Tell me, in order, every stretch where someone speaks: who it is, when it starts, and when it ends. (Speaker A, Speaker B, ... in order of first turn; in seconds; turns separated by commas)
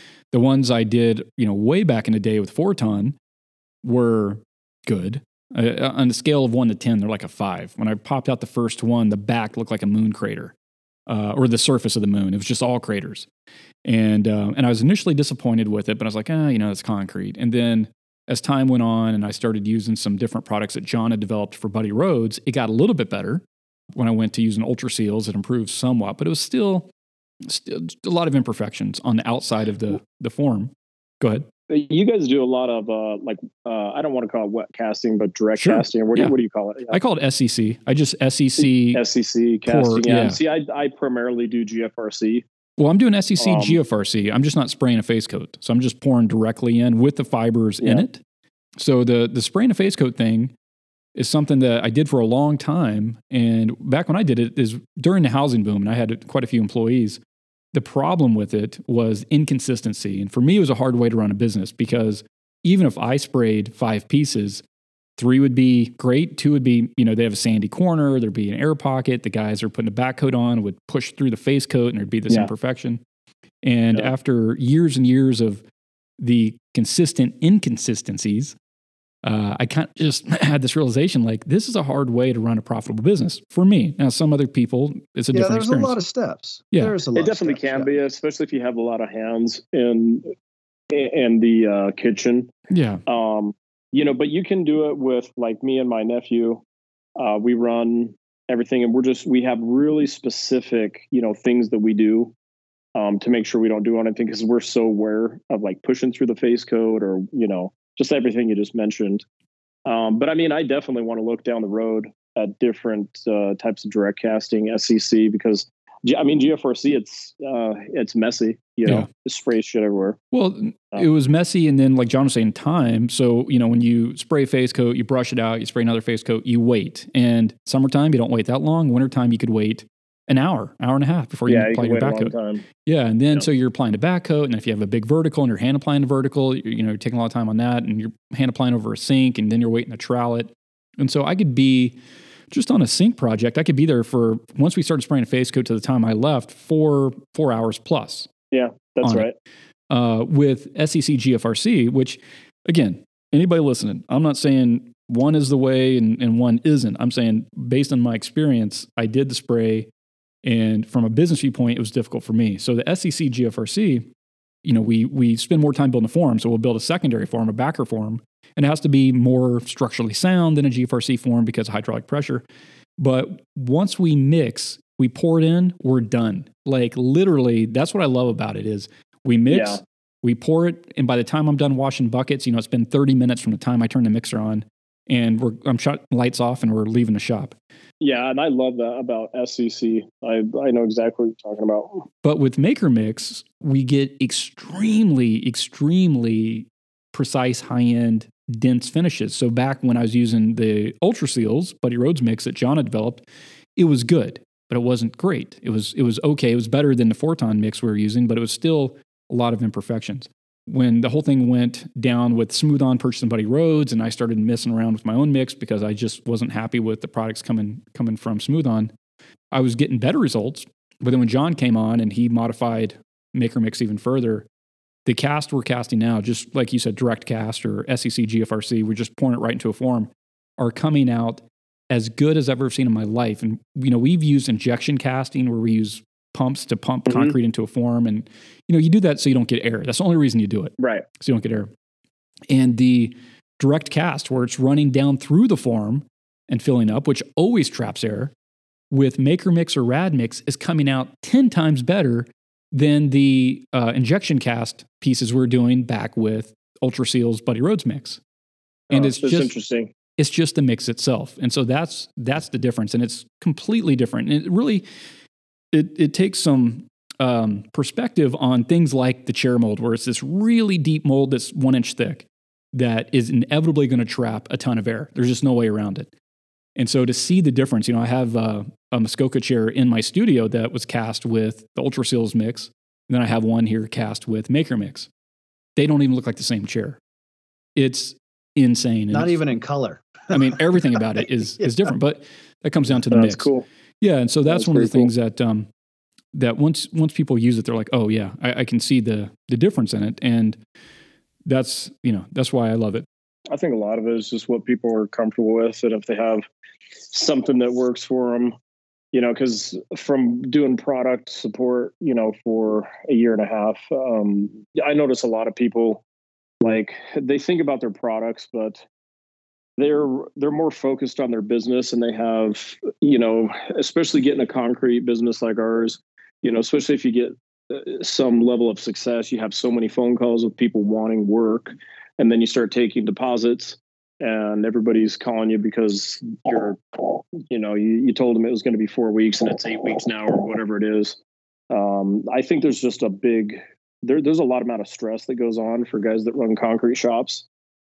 Speaker A: 0.3-3.1, Speaker A: 3.8-10.5, Speaker A: 11.1-13.3, Speaker A: 13.8-23.4, Speaker A: 23.9-26.9, Speaker A: 27.4-31.5, Speaker B: 31.7-37.0, Speaker A: 35.6-36.3, Speaker A: 36.9-39.0, Speaker B: 38.9-42.4, Speaker A: 39.7-40.4, Speaker A: 42.8-48.2, Speaker B: 43.4-43.8, Speaker A: 48.8-50.5, Speaker A: 51.1-57.2, Speaker A: 57.7-64.6, Speaker A: 65.2-73.0, Speaker A: 73.6-75.6, Speaker A: 76.2-78.5, Speaker A: 79.2-86.0, Speaker C: 85.3-87.9, Speaker B: 87.1-90.3, Speaker B: 90.9-92.5, Speaker A: 92.7-93.0, Speaker B: 93.1-96.6, Speaker B: 97.2-102.3, Speaker B: 102.9-109.2, Speaker B: 109.8-120.2, Speaker A: 120.3-132.3, Speaker B: 131.5-132.7, Speaker A: 132.8-142.0, Speaker A: 142.5-148.3, Speaker B: 148.5-149.3, Speaker A: 149.0-149.3, Speaker A: 149.9-159.9, Speaker A: 160.4-164.1, Speaker A: 164.6-172.4, Speaker A: 173.0-187.6, Speaker B: 179.5-179.8, Speaker B: 188.0-192.1, Speaker A: 192.2-203.2, Speaker A: 203.8-218.9, Speaker A: 219.5-224.4, Speaker A: 225.1-241.7, Speaker B: 237.1-237.3, Speaker B: 240.8-241.1, Speaker A: 242.5-248.3, Speaker A: 248.9-258.2, Speaker A: 258.9-259.5, Speaker B: 258.9-259.9, Speaker A: 260.2-264.8, Speaker A: 265.7-276.1, Speaker A: 276.8-285.1, Speaker A: 285.8-287.0, Speaker A: 287.8-289.4, Speaker C: 289.1-290.3, Speaker A: 290.3-293.5, Speaker B: 293.1-293.6, Speaker A: 294.0-295.7, Speaker B: 294.5-295.1, Speaker A: 296.3-300.6, Speaker A: 301.4-303.0, Speaker B: 303.5-306.4, Speaker B: 307.1-308.5, Speaker B: 309.1-316.0, Speaker B: 316.6-318.8, Speaker B: 319.8-341.2, Speaker B: 341.7-347.4